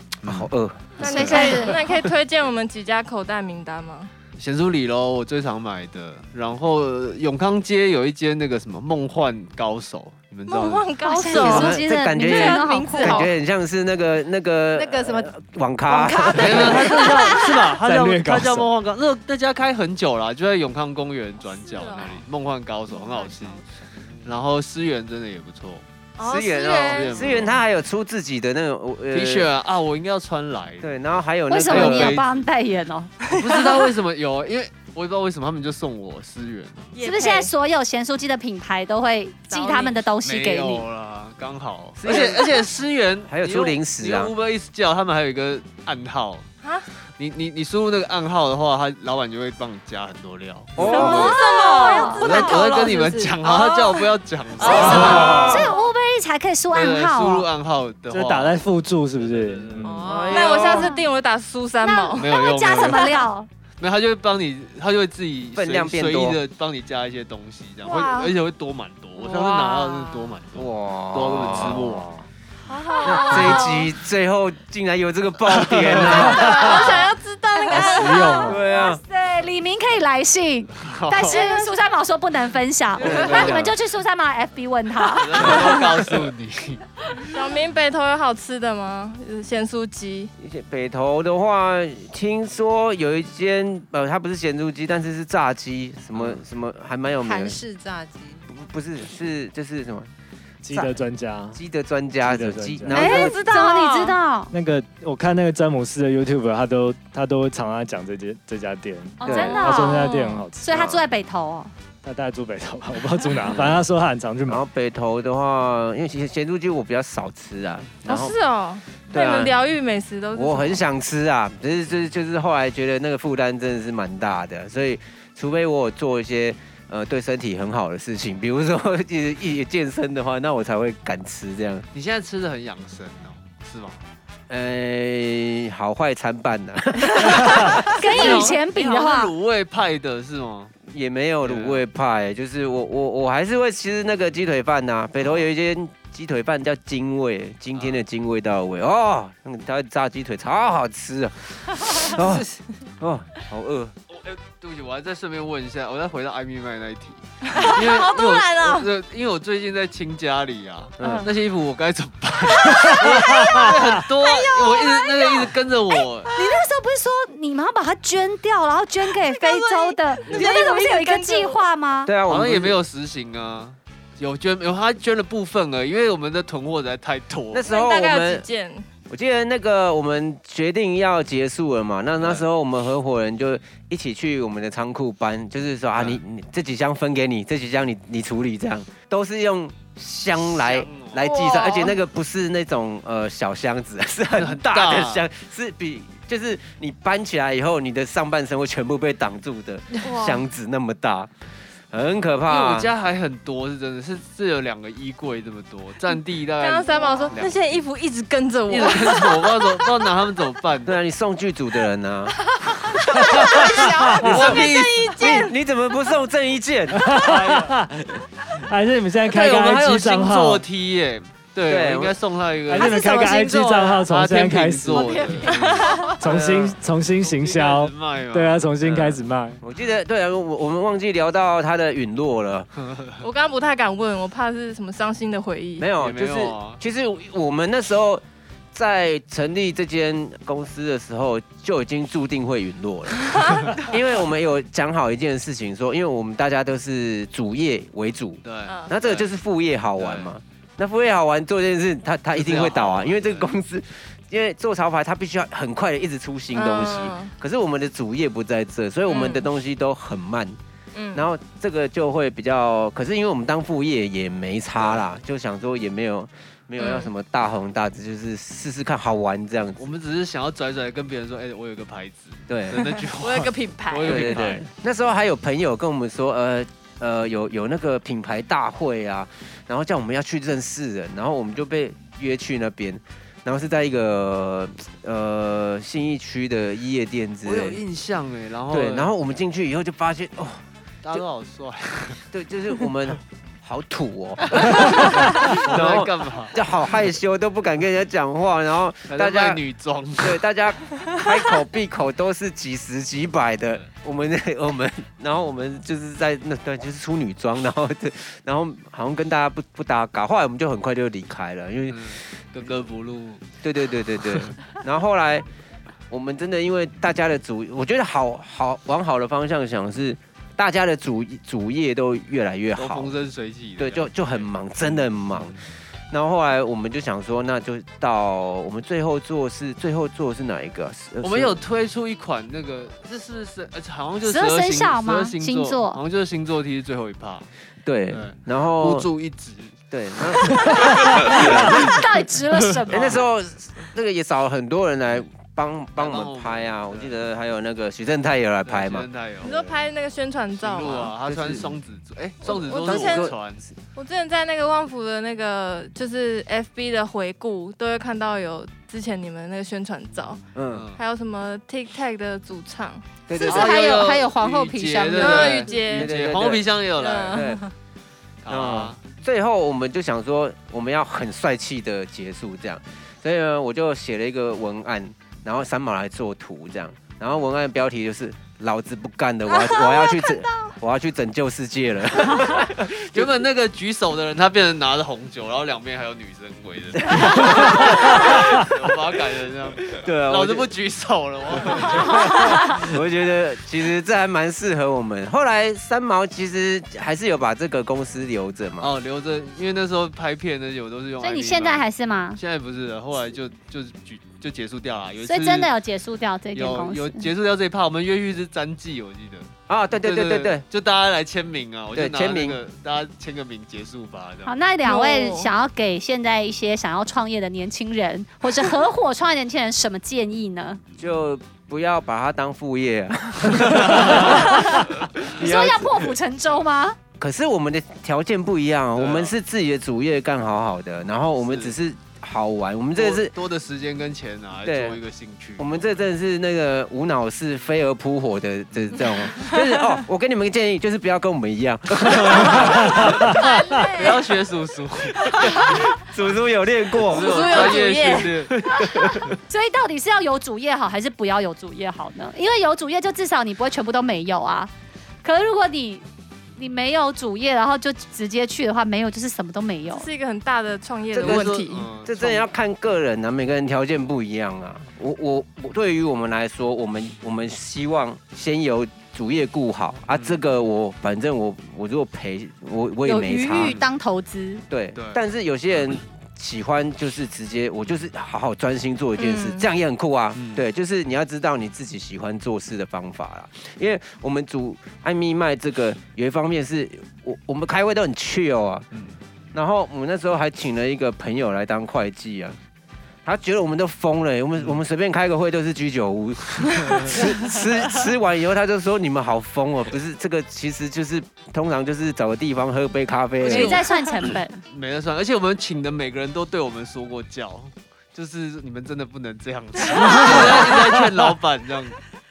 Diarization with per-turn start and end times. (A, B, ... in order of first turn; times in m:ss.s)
0:00.2-0:00.5 A
0:00.2-0:01.0 B
0:01.0-0:04.1 C
0:01.0-0:01.8 D
0:01.0-0:01.7 A
0:01.4-0:01.6 E
0:04.4-0:10.9 A
0:10.5-0:11.8 C
0:11.0-0:13.3 D
0:11.3-0:16.9 B
0:12.2-0:13.3 E
0:14.8-0:15.3 E
0:15.9-0:17.7 E
0:16.3-0:23.6 A
0:17.8-0:18.7 F
0:21.4-0:22.2 C
0:22.9-0:23.6 C
0:24.2-0:25.8 A
0:26.2-0:27.4 C
0:26.2-0:29.5 B
0:26.9-0:27.6 A
0:29.1-0:32.5 A
0:30.8-0:32.2 B
0:31.5-0:33.1 D
0:33.2-0:34.0 C
0:33.3-0:36.9 A
0:36.9-0:37.5 C
0:37.0-0:40.8 D
0:39.5-0:39.8 C
0:40.2-0:46.5 A
0:42.0-0:42.6 B
0:43.3-0:44.3 B
0:46.6-0:46.9 C
0:47.2-0:51.1 A
0:50.8-0:51.4 B
0:50.9-0:52.6 D
0:50.9-0:53.4 E
0:51.0-0:55.9 C
0:52.2-0:55.7 A
0:54.7-0:55.6 F
0:54.8-0:57.4 D
0:55.0-0:55.3 B
0:56.7-0:58.6 A
0:58.1-1:00.2 F
0:59.2-1:00.9 A
0:59.8-1:00.9 E
0:59.9-1:02.8 C
1:00.2-1:01.0 D
1:01.8-1:03.5 D
1:02.1-1:03.3 A
1:03.8-1:12.1 A
1:05.5-1:06.4 B
1:07.8-1:08.3 E
1:09.2-1:10.4 C
1:10.5-1:12.0 B
1:11.8-1:12.1 F
1:12.7-1:13.9 C
1:12.8-1:13.6 E
1:13.0-1:16.9 B
1:15.5-1:16.3 A
1:16.0-1:18.5 C
1:16.4-1:17.0 D
1:17.6-1:25.8 D
1:17.9-1:18.6 F
1:18.4-1:19.0 B
1:20.8-1:21.4 A
1:21.3-1:21.6 C
1:23.0-1:23.7 B
1:23.1-1:23.6 A
1:25.0-1:26.8 A
1:27.3-1:30.3 C
1:30.4-1:37.6 B
1:36.1-1:36.4 A
1:37.2-1:38.4 E
1:38.5-1:40.1 B
1:40.6-1:41.6 F
1:40.7-1:41.0 B
1:41.5-1:43.4 B
1:42.2-1:43.1 F
1:42.9-1:44.5 D
1:43.0-1:44.1 E
1:44.5-1:51.0 F
1:49.2-1:51.7 D
1:49.2-1:49.6 B
1:49.2-1:50.0 C
1:52.0-1:54.6 F
1:53.4-1:53.8 B
1:54.4-1:58.3 B
1:58.0-2:00.8 C
1:59.1-1:59.6 B
2:00.3-2:11.9 B
2:11.9-2:14.0 A
2:14.5-2:18.3 B
2:17.3-2:20.7 A
2:17.9-2:19.3 D
2:20.9-2:33.9 B
2:21.4-2:21.8 A
2:27.8-2:28.0 A
2:34.1-2:46.3 A
2:37.4-2:38.9 C
2:41.0-2:41.3 B
2:43.4-2:43.7 F
2:44.4-2:45.5 C
2:46.3-2:52.1 D
2:49.2-2:51.6 C
2:52.0-2:52.8 B
2:52.3-2:57.7 A
2:57.5-2:58.4 B
2:57.6-2:58.8 C
2:59.1-3:21.3 B
3:02.2-3:02.4 A
3:10.4-3:11.3 A
3:11.2-3:11.9 C
3:14.4-3:15.2 A
3:20.0-3:20.4 C
3:21.9-3:22.9 B
3:22.5-3:27.6 A
3:26.6-3:29.9 C
3:28.7-3:31.0 A
3:30.8-3:32.4 B
3:32.6-3:35.5 C
3:33.3-3:35.3 A
3:33.4-3:34.5 F
3:33.4-3:37.5 B
3:36.9-3:37.9 F
3:37.2-3:37.7 A
3:38.5-3:40.6 F
3:39.2-3:43.3 A
3:41.6-3:42.2 B
3:42.7-3:45.3 F
3:42.7-3:44.0 C
3:44.0-3:46.2 A
3:44.9-3:46.1 C
3:45.0-3:46.2 E
3:46.2-3:49.6 F
3:46.2-3:46.8 B
3:47.2-3:48.7 A
3:48.8-3:52.7 B
3:53.2-3:55.9 C
3:55.8-4:20.6 B
3:56.0-3:56.8 A
4:08.4-4:09.2 A
4:10.0-4:10.3 A
4:12.3-4:13.5 A
4:16.5-4:17.3 C
4:19.1-4:19.5 C
4:20.9-4:21.2 C
4:21.1-4:29.9 B
4:26.8-4:27.1 C
4:29.8-4:34.6 A
4:32.5-4:32.9 B
4:33.2-4:34.4 C
4:33.5-4:34.1 E
4:34.0-4:47.8 B
4:47.4-4:49.1 A
4:48.7-4:51.2 B
4:51.0-4:52.2 A
4:52.3-4:59.6 B
4:54.5-4:56.6 A
4:59.1-5:00.4 A
5:00.2-5:12.2 B
5:11.9-5:13.4 A
5:13.6-5:15.4 B
5:16.1-5:23.1 B
5:22.8-5:25.7 A
5:23.8-5:25.6 B
5:26.1-5:31.6 B
5:31.2-5:37.5 A
5:34.2-5:36.0 D
5:37.8-5:39.1 B
5:38.1-5:39.8 A
5:39.9-5:42.1 B
5:40.3-5:41.9 A
5:41.3-5:43.2 D
5:42.8-5:43.2 A
5:42.9-5:49.1 B
5:46.0-5:47.1 A
5:48.6-5:49.7 A
5:49.4-5:51.1 C
5:50.6-5:53.6 A
5:51.2-5:51.8 B
5:52.4-5:53.4 B
5:52.4-5:53.4 C
5:53.9-6:00.4 C
6:00.5-6:00.9 B
6:00.7-6:01.0 A
6:01.0-6:03.0 C
6:03.3-6:04.1 B
6:03.3-6:05.6 D
6:03.4-6:07.4 A
6:05.2-6:06.1 C
6:05.9-6:06.7 B
6:06.9-6:07.7 C
6:07.3-6:07.6 B
6:08.4-6:09.0 A
6:08.5-6:23.4 B
6:23.0-6:32.8 A
6:26.9-6:28.4 B
6:29.9-6:30.7 B
6:31.7-6:38.9 B
6:38.8-6:45.7 A
6:41.2-6:42.4 D
6:45.2-6:47.3 D
6:46.5-6:54.5 A
6:49.7-6:50.6 B
6:51.9-6:52.6 B
6:54.4-7:00.8 D
6:54.8-6:55.5 C
7:01.0-7:06.1 B
7:03.6-7:04.4 A
7:04.2-7:07.0 D
7:07.2-7:13.4 B
7:09.0-7:09.3 A
7:11.4-7:11.7 A
7:12.9-7:16.0 A
7:14.6-7:15.0 B
7:15.6-7:23.3 B
7:22.0-7:23.3 A
7:23.2-7:24.2 D
7:23.9-7:25.8 A
7:25.3-7:29.4 B
7:26.9-7:28.6 A
7:27.0-7:28.5 C
7:28.8-7:34.7 D
7:35.2-7:40.1 D
7:39.9-7:41.9 C
7:41.1-7:53.8 B
7:41.2-7:42.4 A
7:50.1-7:50.4 A
7:53.0-7:54.6 D
7:53.6-7:53.9 A
7:54.7-8:08.9 B
7:54.9-7:55.2 A
7:59.2-7:59.6 C
8:00.4-8:00.6 A
8:08.9-8:09.2 A
8:09.5-8:12.6 B
8:13.2-8:23.8 B
8:16.8-8:17.2 A
8:23.4-8:32.0 A
8:23.4-8:24.6 D
8:30.2-8:30.6 B
8:30.3-8:31.0 F